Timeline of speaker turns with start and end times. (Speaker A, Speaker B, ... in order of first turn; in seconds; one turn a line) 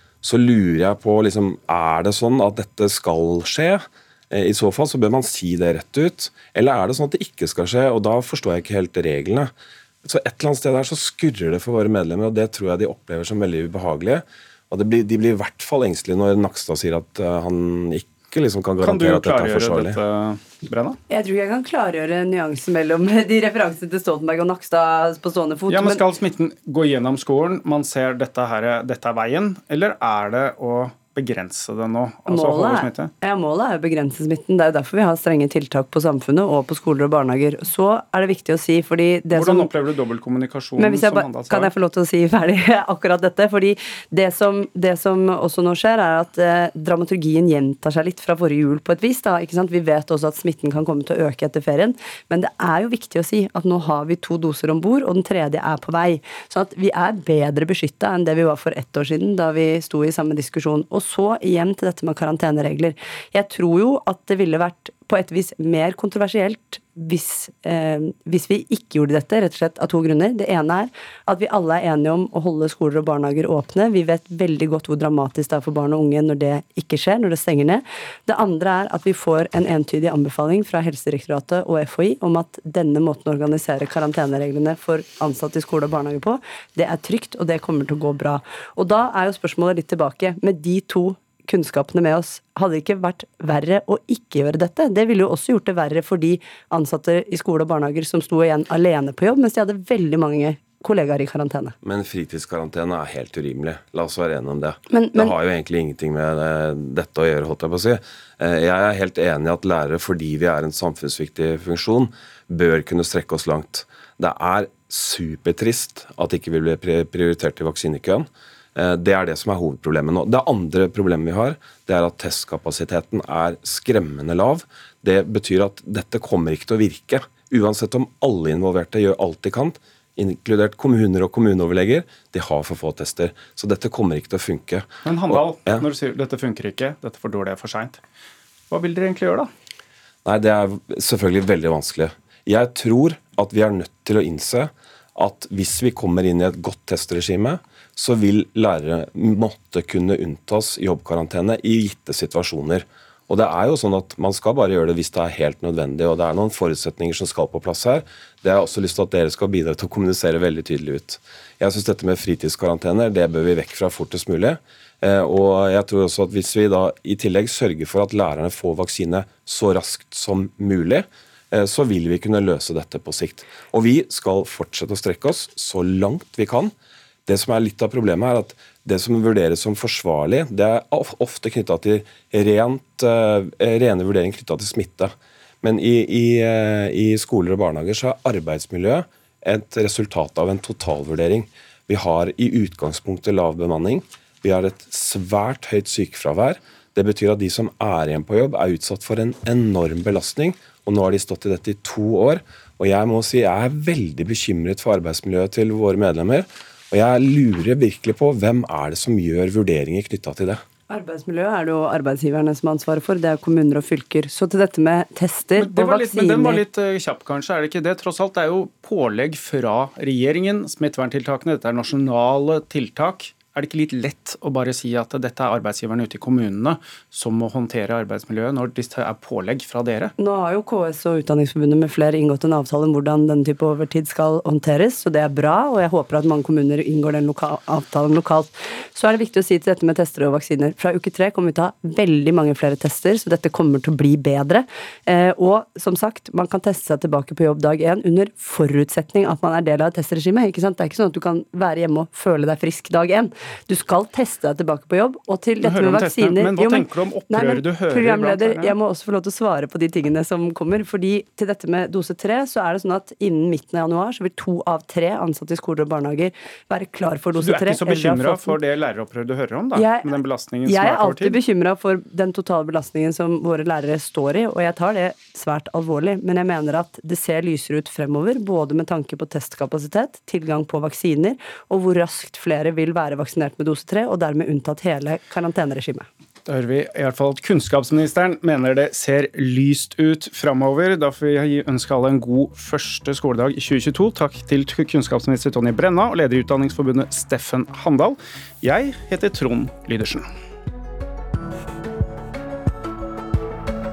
Speaker A: 0.2-9.5
Speaker A: 10.0-20.0
Speaker B: 18.8-21.0
Speaker C: 21.1-26.0
Speaker B: 25.7-33.1
Speaker C: 32.3-39.7
Speaker B: 39.3-41.7
Speaker C: 40.8-101.8
Speaker A: 101.8-135.8
Speaker C: 104.9-105.3
Speaker B: 135.0-138.0
Speaker B: 138.7-139.5
Speaker A: 140.2-176.7
Speaker A: 177.2-210.6
Speaker C: 210.9-216.6
Speaker B: 215.6-230.1
Speaker C: 230.2-268.6
Speaker B: 255.6-258.8
Speaker B: 267.4-271.4
Speaker C: 269.7-286.1
Speaker B: 286.5-300.2